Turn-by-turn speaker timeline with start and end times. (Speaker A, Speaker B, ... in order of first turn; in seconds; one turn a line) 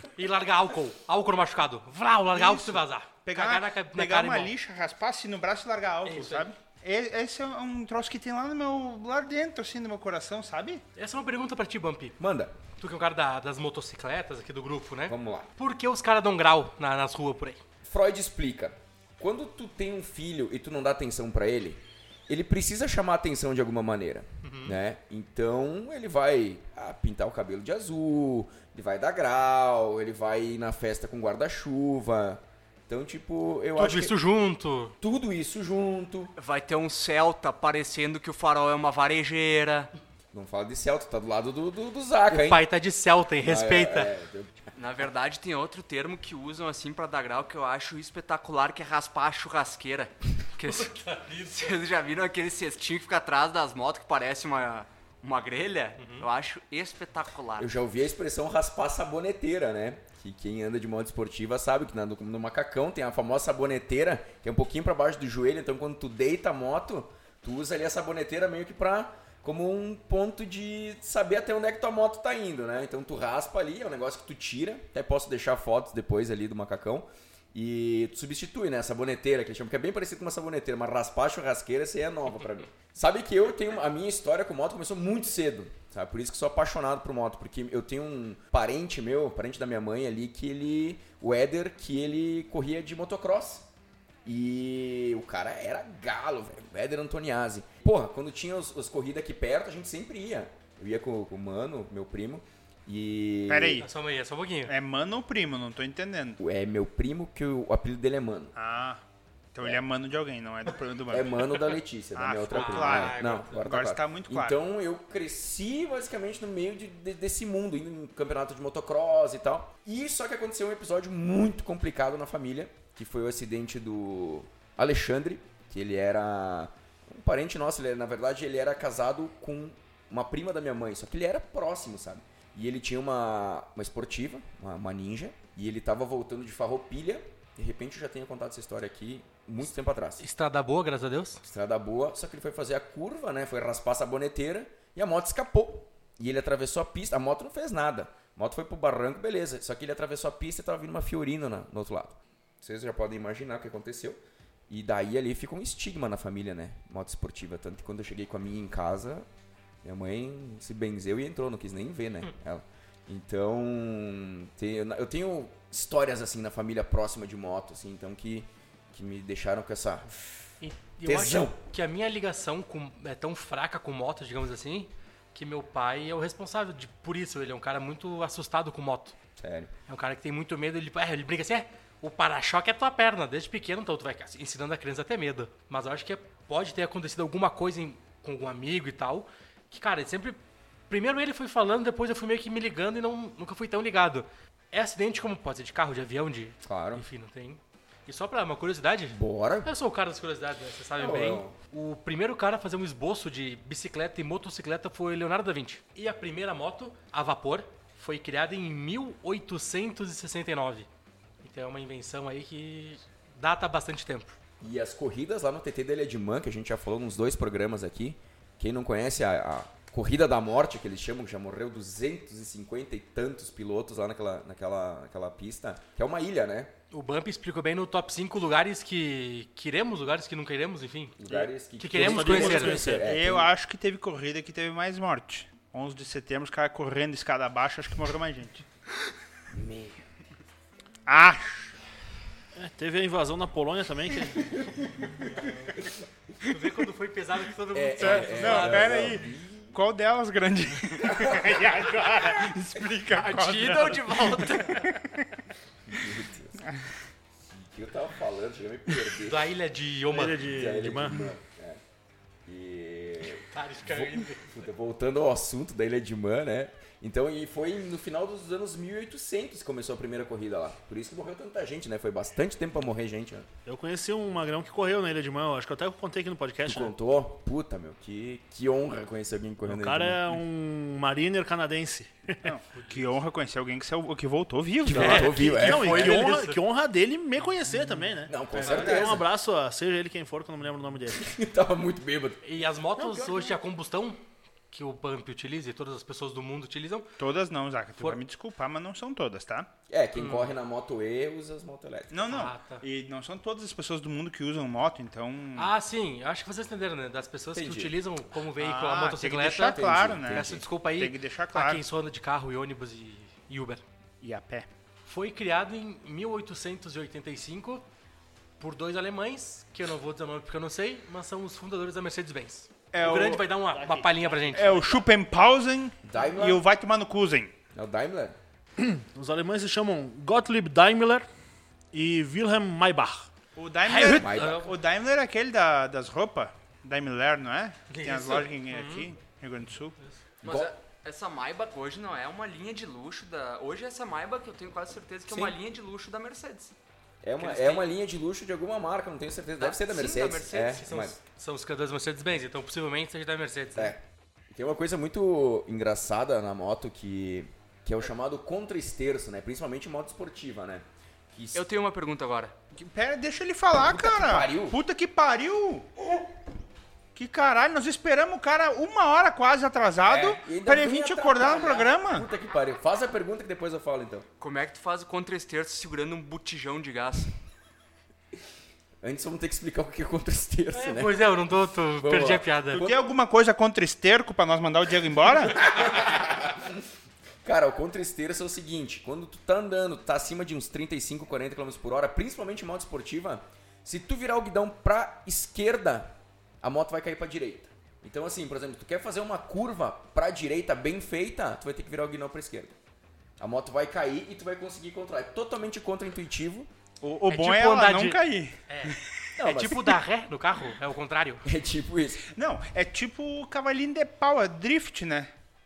Speaker A: 0.1-4.5
Speaker B: 2.3-10.8
Speaker A: 6.0-6.5
Speaker A: 10.9-12.2
Speaker C: 12.2-12.5
Speaker A: 12.8-17.6
Speaker C: 15.1-15.5
Speaker C: 17.8-34.1
Speaker A: 24.4-24.8
Speaker A: 33.7-34.9
Speaker C: 35.0-36.3
Speaker D: 36.4-39.9
Speaker C: 40.3-42.6
Speaker A: 42.3-44.1
Speaker C: 43.4-44.6
Speaker D: 44.7-57.7
Speaker A: 50.7-51.7
Speaker A: 56.0-56.3
Speaker C: 57.6-93.7
Speaker C: 94.2-103.8
Speaker B: 103.5-103.9
Speaker A: 103.8-104.7
Speaker B: 104.7-106.4
Speaker C: 106.4-108.5
Speaker B: 108.5-109.0
Speaker B: 109.5-111.4
Speaker C: 111.1-140.2
Speaker B: 112.1-114.5
Speaker A: 112.5-113.6
Speaker A: 140.2-141.4
Speaker C: 141.4-159.3
Speaker C: 159.8-170.1
Speaker A: 170.6-179.2
Speaker C: 171.0-171.6
Speaker C: 179.4-179.7
Speaker A: 179.9-210.9
Speaker C: 196.6-197.0
Speaker C: 199.1-199.7
Speaker C: 201.0-201.6
Speaker A: 211.4-214.4
Speaker C: 214.6-226.7
Speaker A: 226.9-232.9
Speaker C: 231.2-233.5
Speaker E: 231.9-233.1
Speaker B: 232.5-238.6
Speaker C: 239.5-240.0
Speaker B: 241.1-241.7
Speaker E: 242.6-244.9
Speaker C: 245.4-246.0
Speaker A: 246.4-249.0
Speaker C: 247.7-249.8
Speaker B: 248.0-255.4
Speaker C: 251.0-251.7
Speaker D: 253.1-254.8
Speaker A: 253.3-254.7
Speaker C: 255.9-256.6
Speaker C: 257.3-259.5
Speaker A: 259.2-260.5
Speaker E: 260.1-261.2
Speaker C: 260.4-261.8
Speaker C: 262.4-273.5
Speaker A: 263.4-264.5
Speaker E: 273.6-276.9
Speaker C: 276.6-280.4
Speaker E: 279.6-282.5
Speaker B: 282.4-285.4
Speaker A: 282.7-283.1
Speaker C: 284.8-286.4
Speaker A: 284.9-286.6
Speaker E: 284.9-291.2
Speaker C: 288.3-289.2
Speaker A: 288.6-289.0
Speaker B: 288.6-289.1
Speaker C: 291.1-292.4
Speaker A: 292.4-297.1
Speaker E: 293.0-293.6
Speaker B: 297.2-299.7
Speaker C: 299.9-302.3
Speaker A: 300.1-300.5
Speaker B: 302.1-305.7
Speaker A: 302.2-302.8
Speaker A: 305.6-313.8
Speaker C: 307.5-307.9
Speaker B: 308.6-311.8
Speaker C: 309.7-310.6
Speaker B: 314.2-314.7
Speaker A: 315.1-317.8
Speaker A: 318.6-324.9
Speaker B: 322.9-323.5
Speaker E: 323.7-325.0
Speaker B: 324.5-327.5
Speaker C: 326.0-326.6
Speaker C: 327.7-328.4
Speaker E: 328.8-331.2
Speaker E: 331.9-333.3
Speaker B: 333.6-339.9
Speaker E: 333.9-334.3
Speaker A: 334.1-334.7
Speaker C: 334.1-334.7
Speaker A: 337.9-339.1
Speaker C: 340.4-340.7
Speaker D: 340.4-346.7
Speaker C: 345.3-345.6
Speaker C: 347.2-351.2
Speaker D: 347.4-347.9
Speaker D: 349.6-350.8
Speaker A: 350.6-353.9
Speaker C: 353.7-361.6
Speaker D: 361.5-362.5
Speaker B: 362.8-365.9
Speaker C: 363.8-364.8
Speaker B: 367.1-372.3
Speaker C: 370.0-374.3
Speaker D: 374.4-377.3
Speaker C: 379.0-381.4
Speaker A: 380.7-382.9
Speaker C: 381.9-382.4
Speaker B: 382.7-385.7
Speaker C: 385.6-386.8
Speaker C: 387.4-402.7
Speaker C: 403.4-406.7
Speaker B: 407.0-409.3
Speaker A: 407.3-411.4
Speaker C: 409.4-409.9
Speaker C: 411.4-412.3
Speaker B: 412.3-415.3